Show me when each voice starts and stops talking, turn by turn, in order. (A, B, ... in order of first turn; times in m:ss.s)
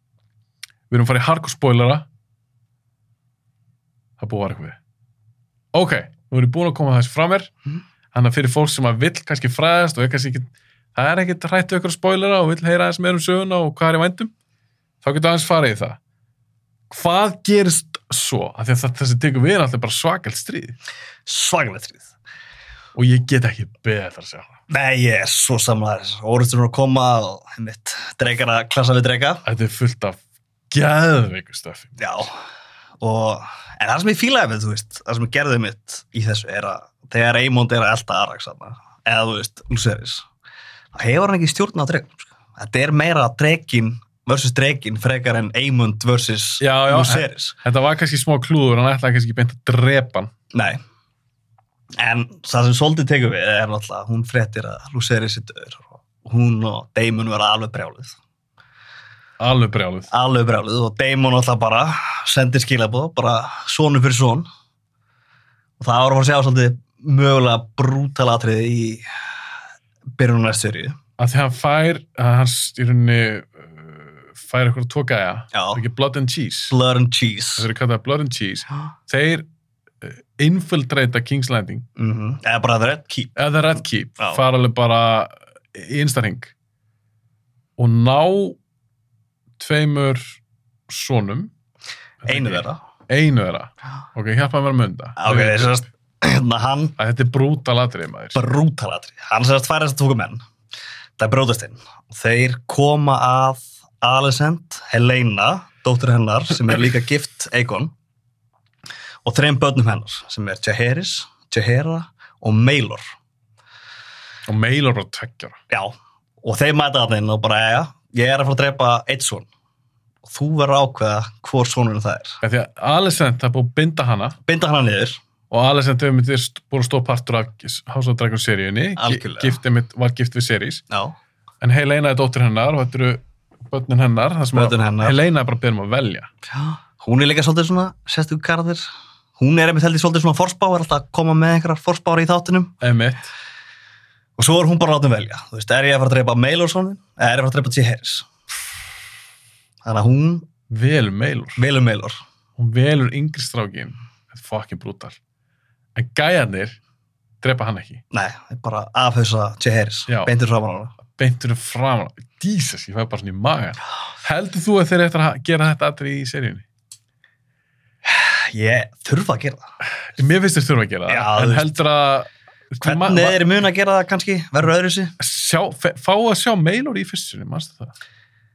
0:00.9-0:02.1 A
0:04.2-0:04.8 A
0:05.7-0:07.5 A
0:08.1-0:14.3 A
0:15.0-0:16.0 A
0:16.9-0:20.8 A
0:21.3-0:22.1 B
0:23.0-0:24.6 A
0:24.7-0:29.4 B
0:29.4-0:30.2 A
0:30.7-0:32.0 A
0:32.0-0:32.3 B
0:33.0-0:40.3 B
0:40.9-0:47.6 B
0:46.6-0:50.3 A
0:50.5-0:50.8 B
0:52.0-0:58.2 B
0:59.4-1:00.1 A
1:00.1-1:04.5 B
1:05.8-1:09.0 B
1:10.2-1:11.0 B
1:11.2-1:16.7 A
1:15.5-1:15.8 B
1:16.7-1:17.7 B
1:17.6-1:19.4 A
1:20.0-1:21.9 A
1:22.0-1:23.4 B
1:23.4-1:26.5 A
1:27.8-1:28.6 A
1:29.6-1:31.5 A
1:32.2-1:35.8 A
1:32.3-1:32.8 B
1:35.2-1:37.0 B
1:37.0-1:38.4 A
1:38.4-1:40.4 B
1:41.2-1:47.9 B
1:49.2-1:53.0 B
1:54.5-1:55.6 A
1:55.7-1:59.5 B
2:00.2-2:02.4 B
2:02.4-2:04.4 A
2:04.5-2:05.2 B
2:05.5-2:10.8 A
2:09.0-2:09.6 B
2:10.9-2:11.2 B
2:11.6-2:16.3 A
2:14.5-2:15.2 B
2:16.5-2:18.8 B
2:19.4-2:22.8 B
2:22.8-2:23.3 A
2:24.4-2:28.3 B
2:29.8-2:30.5 B
2:30.7-2:31.6 A
2:31.6-2:32.2 B
2:32.6-2:35.2 A
2:36.0-2:36.8 A
2:37.4-2:38.0 A
2:38.1-2:40.9 B
2:41.1-2:46.6 A
2:48.0-2:49.7 B
2:50.0-2:53.5 A
2:51.1-2:51.7 B
2:52.8-2:55.2 B
2:55.2-2:57.9 A